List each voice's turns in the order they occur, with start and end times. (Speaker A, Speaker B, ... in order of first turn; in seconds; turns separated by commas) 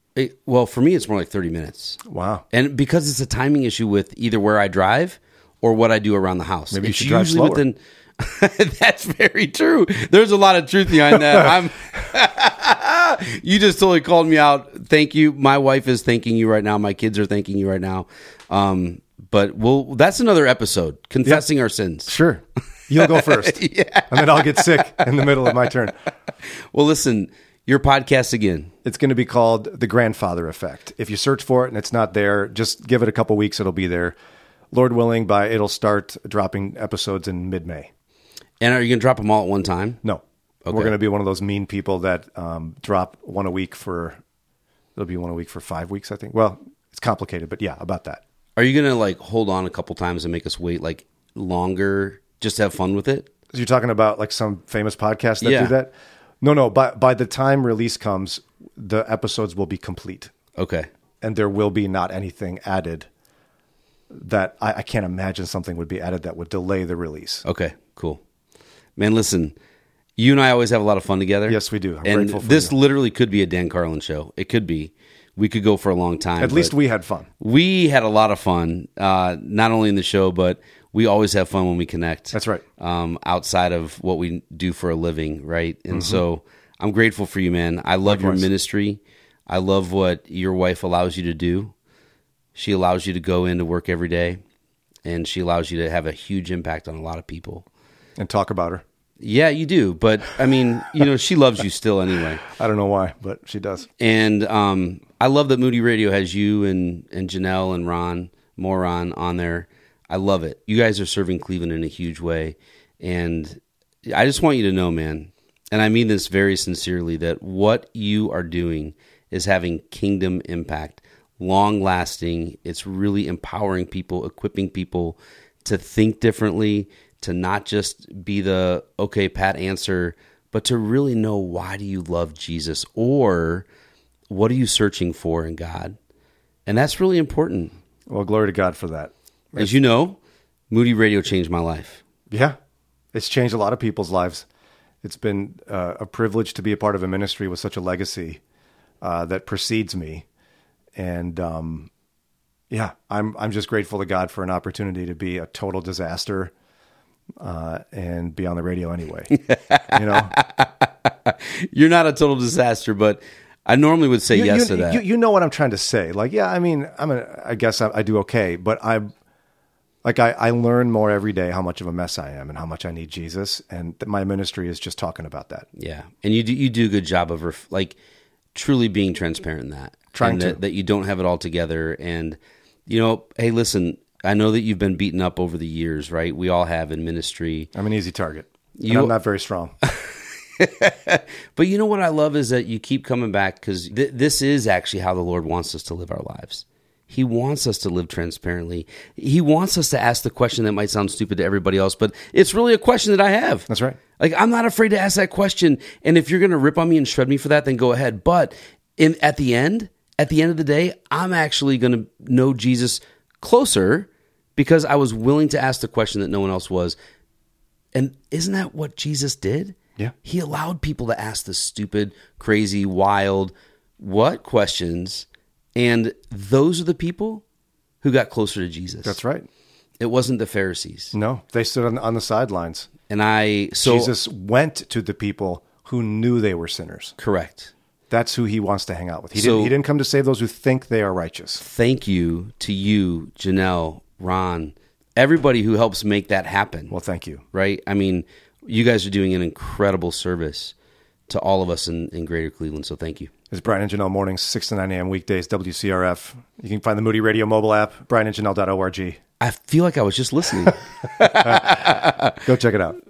Speaker A: 0.1-2.0, Speaker B: 2.0-2.4, Speaker A: 2.5-22.1, Speaker B: 6.7-7.6, Speaker B: 22.1-25.9, Speaker A: 22.9-25.5, Speaker A: 26.4-28.7, Speaker B: 28.8-34.1, Speaker B: 34.7-37.9, Speaker A: 38.6-40.0, Speaker B: 40.0-44.2, Speaker A: 40.6-40.9, Speaker B: 45.0-48.2, Speaker A: 48.6-53.2, Speaker B: 53.5-60.3, Speaker A: 55.4-55.7, Speaker A: 60.5-60.9, Speaker B: 61.2-63.1, Speaker B: 64.1-67.4, Speaker A: 67.4-68.2, Speaker A: 69.0-69.5, Speaker A: 70.2-76.7, Speaker B: 71.5-72.7, Speaker B: 76.4-77.3, Speaker A: 77.4-91.7, Speaker B: 82.3-82.6, Speaker B: 85.9-86.2, Speaker B: 88.0-88.5, Speaker A: 92.5-94.4, Speaker A: 95.0-97.6, Speaker B: 98.2-98.8, Speaker A: 99.2-102.4, Speaker B: 102.4-103.9, Speaker A: 104.0-133.7, Speaker A: 134.3-136.0, Speaker A: 136.7-137.7, Speaker B: 138.1-139.7, Speaker A: 139.6-140.2, Speaker A: 140.7-142.0, Speaker B: 142.3-142.6, Speaker B: 143.1-144.4, Speaker B: 145.0-148.4, Speaker B: 149.0-150.2, Speaker B: 150.9-151.9, Speaker B: 152.7-156.5, Speaker B: 157.4-159.3, Speaker A: 159.3-165.0, Speaker B: 159.9-160.3, Speaker B: 164.3-169.1, Speaker B: 170.0-175.7, Speaker A: 175.8-177.9, Speaker A: 178.5-187.7, Speaker B: 180.1-180.6, Speaker B: 187.7-189.7, Speaker A: 188.8-189.1, Speaker A: 189.8-217.0, Speaker B: 203.7-204.0, Speaker A: 217.9-227.4, Speaker A: 228.0-229.2, Speaker B: 229.0-229.5, Speaker A: 230.0-231.1, Speaker B: 231.1-232.9, Speaker A: 233.1-234.1, Speaker B: 233.8-237.1, Speaker A: 237.2-237.7, Speaker B: 238.1-241.6, Speaker A: 239.3-239.7, Speaker A: 241.6-246.9, Speaker B: 246.9-247.4, Speaker A: 247.5-250.7, Speaker A: 251.3-253.3, Speaker B: 253.5-259.2, Speaker A: 259.4-262.4, Speaker B: 261.4-261.9, Speaker B: 262.4-263.0